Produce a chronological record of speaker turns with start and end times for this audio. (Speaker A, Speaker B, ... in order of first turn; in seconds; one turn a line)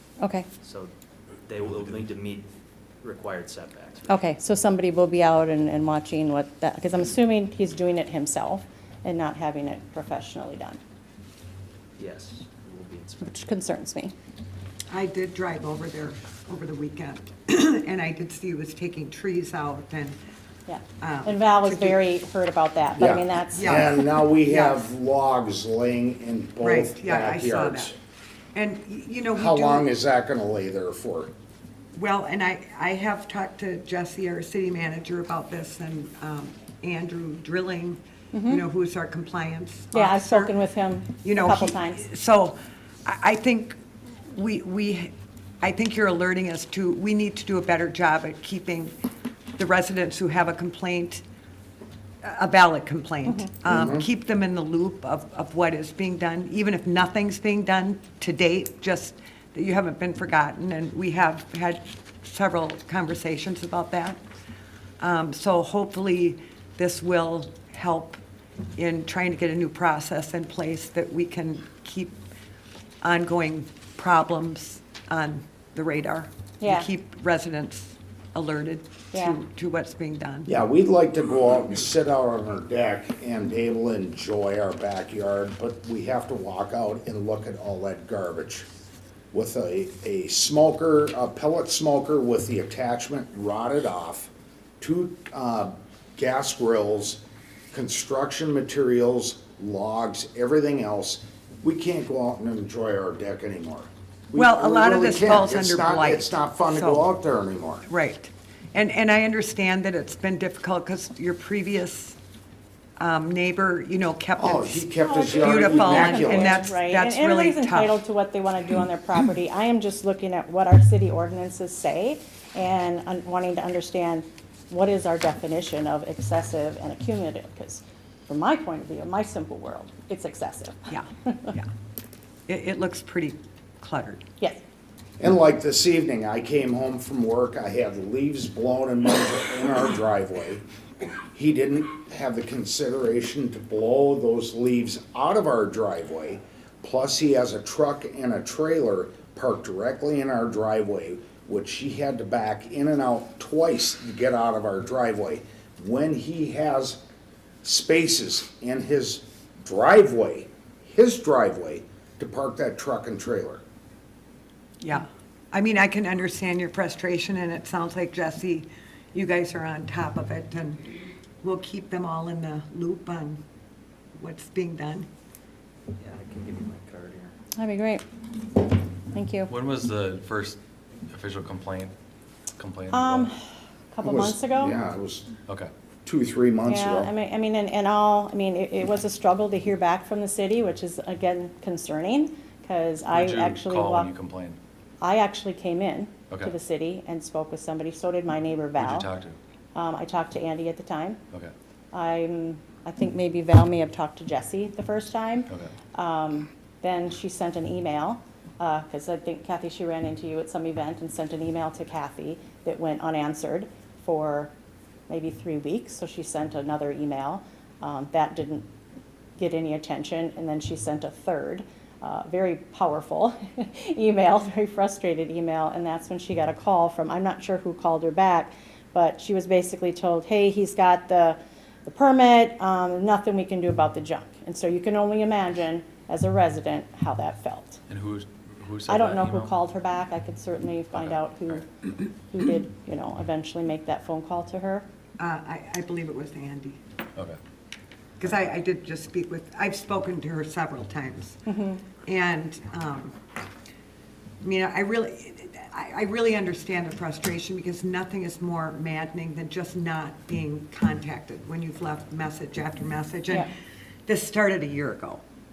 Speaker A: 0.2-0.5
Speaker B: 0.6-0.9
Speaker B: 1.5-2.5
Speaker B: 3.0-4.1
Speaker A: 4.1-10.8
Speaker B: 12.0-13.3
Speaker A: 13.2-14.1
Speaker C: 14.9-20.2
Speaker A: 20.7-24.0
Speaker C: 21.0-22.0
Speaker D: 23.0-28.0
Speaker C: 23.5-24.8
Speaker C: 26.6-27.9
Speaker C: 28.5-29.9
Speaker D: 29.3-31.3
Speaker C: 31.9-40.5
Speaker A: 38.3-38.6
Speaker A: 39.9-42.0
Speaker C: 41.2-49.0
Speaker C: 49.6-51.2
Speaker C: 52.2-64.2
Speaker D: 53.7-54.0
Speaker C: 65.0-68.2
Speaker C: 68.8-72.2
Speaker C: 73.0-80.5
Speaker A: 76.6-76.9
Speaker A: 79.1-79.4
Speaker D: 80.5-88.7
Speaker D: 89.3-97.2
Speaker D: 97.7-107.9
Speaker C: 104.3-107.1
Speaker C: 107.8-112.2
Speaker C: 113.0-118.0
Speaker D: 114.4-116.6
Speaker A: 115.0-131.5
Speaker C: 130.9-131.7
Speaker C: 132.5-134.2
Speaker D: 135.2-140.6
Speaker D: 141.3-157.0
Speaker D: 157.6-163.6
Speaker C: 164.8-170.9
Speaker C: 171.4-173.4
Speaker C: 174.2-175.1
Speaker B: 176.0-177.4
Speaker A: 177.6-178.0
Speaker A: 179.1-179.5
Speaker E: 179.5-180.6
Speaker E: 181.1-181.9
Speaker E: 182.6-183.3
Speaker A: 182.9-183.4
Speaker A: 183.9-184.8
Speaker D: 184.0-185.3
Speaker D: 186.1-187.1
Speaker A: 186.7-194.1
Speaker E: 193.1-194.6
Speaker A: 195.0-199.1
Speaker E: 198.8-199.4
Speaker A: 199.7-201.2
Speaker A: 201.9-214.5
Speaker A: 215.1-218.7
Speaker A: 219.4-237.8
Speaker E: 237.9-239.5
Speaker A: 238.9-244.8
Speaker E: 240.9-241.6
Speaker C: 245.2-246.8
Speaker C: 248.2-251.4
Speaker A: 251.5-251.8
Speaker C: 252.0-253.1
Speaker C: 254.4-263.5
Speaker C: 264.1-265.2